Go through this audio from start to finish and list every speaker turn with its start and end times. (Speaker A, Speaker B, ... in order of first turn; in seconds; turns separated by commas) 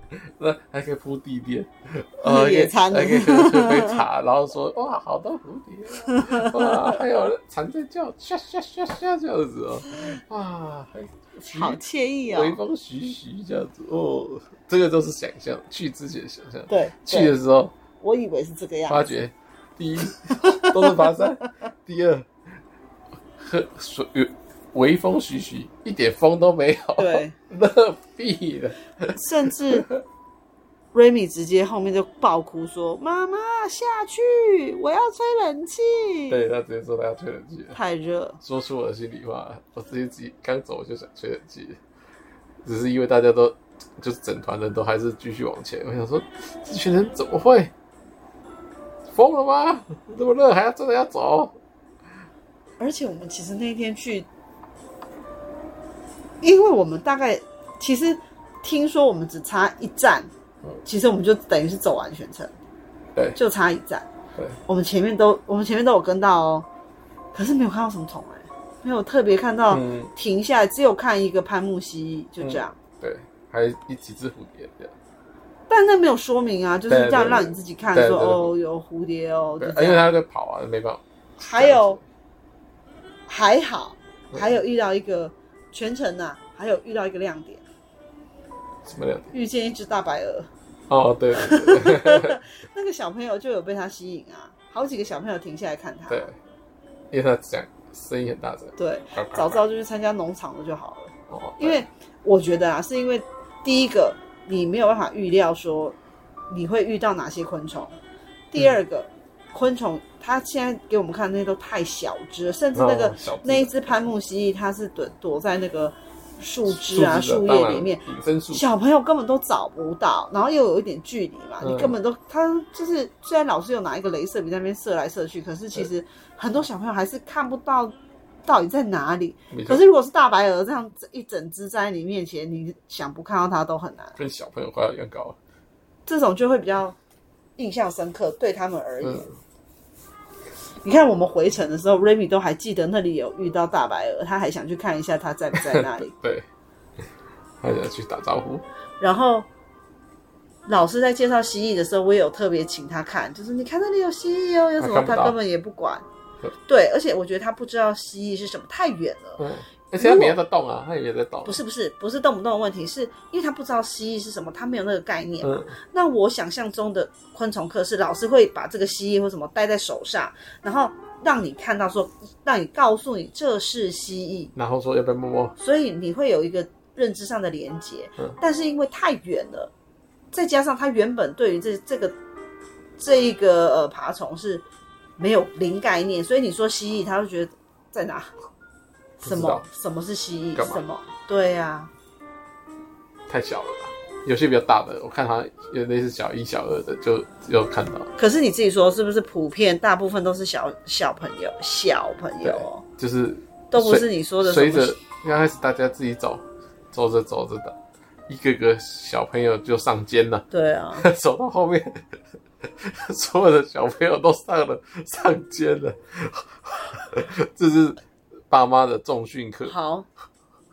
Speaker A: 0.2-17.7, Speaker B: 2.2-4.0, Speaker B: 6.0-7.0, Speaker B: 11.5-12.6, Speaker B: 16.7-17.4, Speaker B: 18.0-19.1, Speaker A: 18.9-22.3, Speaker B: 20.2-21.5, Speaker A: 23.4-30.0, Speaker B: 27.0-27.3, Speaker B: 29.1-29.9, Speaker B: 30.9-36.4, Speaker A: 36.3-37.8, Speaker B: 37.7-38.4, Speaker A: 38.4-41.8, Speaker A: 42.6-47.7, Speaker A: 49.1-51.5, Speaker B: 52.8-54.3, Speaker B: 56.4-60.3, Speaker B: 60.8-62.5, Speaker B: 63.4-64.1, Speaker B: 64.7-66.7, Speaker B: 67.3-72.8, Speaker A: 69.7-70.1, Speaker A: 72.4-74.9, Speaker B: 75.7-80.1, Speaker A: 76.9-78.5, Speaker A: 79.6-82.0, Speaker B: 81.4-82.0, Speaker B: 83.3-87.6, Speaker A: 88.8-89.3, Speaker B: 89.3-90.5, Speaker A: 90.9-92.4, Speaker B: 91.3-96.3, Speaker A: 96.1-96.3, Speaker A: 97.1-99.6, Speaker B: 98.8-106.0, Speaker A: 101.3-101.8, Speaker B: 106.5-107.9, Speaker B: 108.5-134.2, Speaker A: 112.7-113.9, Speaker A: 116.7-118.6, Speaker A: 121.6-122.0, Speaker A: 129.5-129.8, Speaker A: 134.2-135.4, Speaker B: 136.1-137.0, Speaker B: 137.6-139.3, Speaker A: 139.0-139.3, Speaker B: 140.8-146.1, Speaker A: 145.5-146.4, Speaker A: 147.6-148.6, Speaker B: 149.0-149.5, Speaker B: 150.7-156.0, Speaker A: 154.8-155.3, Speaker B: 156.7-159.4, Speaker A: 159.4-161.6, Speaker B: 160.0-160.4, Speaker B: 161.4-174.5, Speaker A: 165.4-165.7, Speaker A: 174.5-175.6, Speaker B: 175.6-179.7, Speaker B: 180.3-182.2, Speaker B: 183.0-184.6, Speaker B: 185.2-188.3, Speaker B: 189.2-191.9, Speaker A: 189.2-189.6, Speaker A: 190.5-190.8, Speaker A: 193.3-198.1, Speaker B: 198.2-202.8, Speaker A: 202.4-210.4, Speaker B: 203.7-205.0, Speaker B: 210.5-211.1, Speaker A: 211.0-212.0, Speaker A: 212.6-219.7, Speaker B: 219.7-220.1